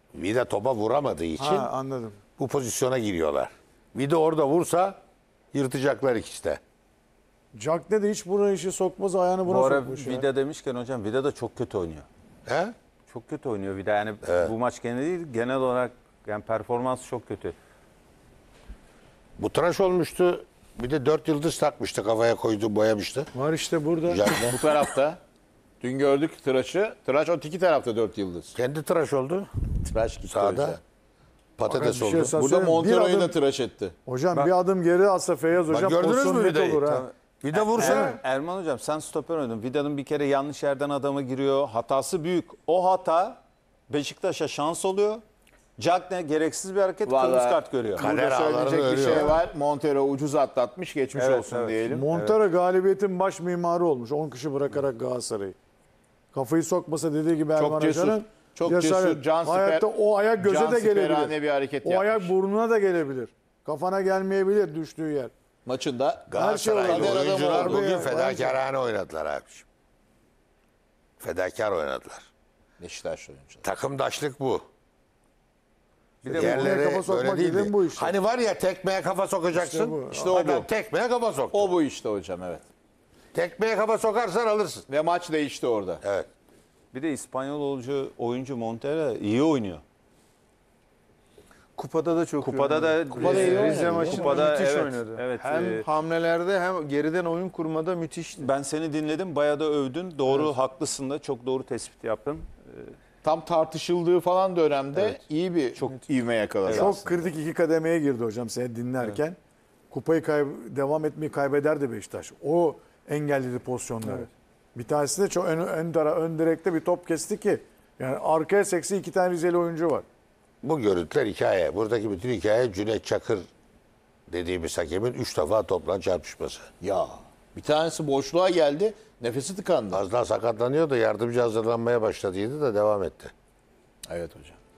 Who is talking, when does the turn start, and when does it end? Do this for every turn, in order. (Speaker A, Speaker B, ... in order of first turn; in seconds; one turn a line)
Speaker A: 0.1-1.7
Speaker B: 1.4-2.2
Speaker A: 2.4-5.0
Speaker A: 5.5-6.6
Speaker B: 7.5-10.2
Speaker C: 9.4-12.1
Speaker A: 12.4-12.7
Speaker C: 13.1-17.5
Speaker A: 14.2-14.5
Speaker A: 19.4-23.3
Speaker B: 23.3-24.4
Speaker A: 24.1-24.8
Speaker D: 24.3-25.2
Speaker D: 25.8-28.5
Speaker A: 28.5-29.5
Speaker D: 29.8-30.8
Speaker A: 30.3-30.8
Speaker A: 31.6-32.3
Speaker B: 31.6-33.4
Speaker D: 32.4-33.9
Speaker B: 34.1-37.1
Speaker A: 35.7-36.8
Speaker C: 36.9-45.2
Speaker A: 37.4-38.2
Speaker B: 37.8-38.2
Speaker C: 45.8-48.0
Speaker D: 47.0-52.0
Speaker A: 48.0-49.4
Speaker C: 51.1-52.4
Speaker B: 51.9-55.5
Speaker B: 56.3-65.3
Speaker D: 57.5-59.9
Speaker D: 60.4-62.3
Speaker D: 65.6-66.3
Speaker A: 66.3-69.6
Speaker B: 66.3-68.6
Speaker D: 66.8-67.8
Speaker A: 71.2-72.3
Speaker D: 72.8-73.6
Speaker A: 73.6-74.6
Speaker C: 76.2-76.8
Speaker B: 76.2-78.1
Speaker A: 76.3-81.7
Speaker B: 79.5-80.4
Speaker D: 80.1-80.7
Speaker D: 81.5-82.7
Speaker A: 83.3-84.9
Speaker D: 84.9-86.0
Speaker A: 86.0-86.3
Speaker C: 86.9-89.8
Speaker E: 91.8-98.5
Speaker C: 92.4-95.9
Speaker D: 93.1-94.5
Speaker C: 98.4-102.9
Speaker D: 103.2-107.3
Speaker C: 105.8-106.1
Speaker C: 106.6-106.9
Speaker B: 106.7-109.4
Speaker B: 109.9-120.0
Speaker A: 120.6-123.5
Speaker A: 124.3-126.7
Speaker D: 126.8-130.0
Speaker A: 129.9-133.3
Speaker D: 134.1-134.6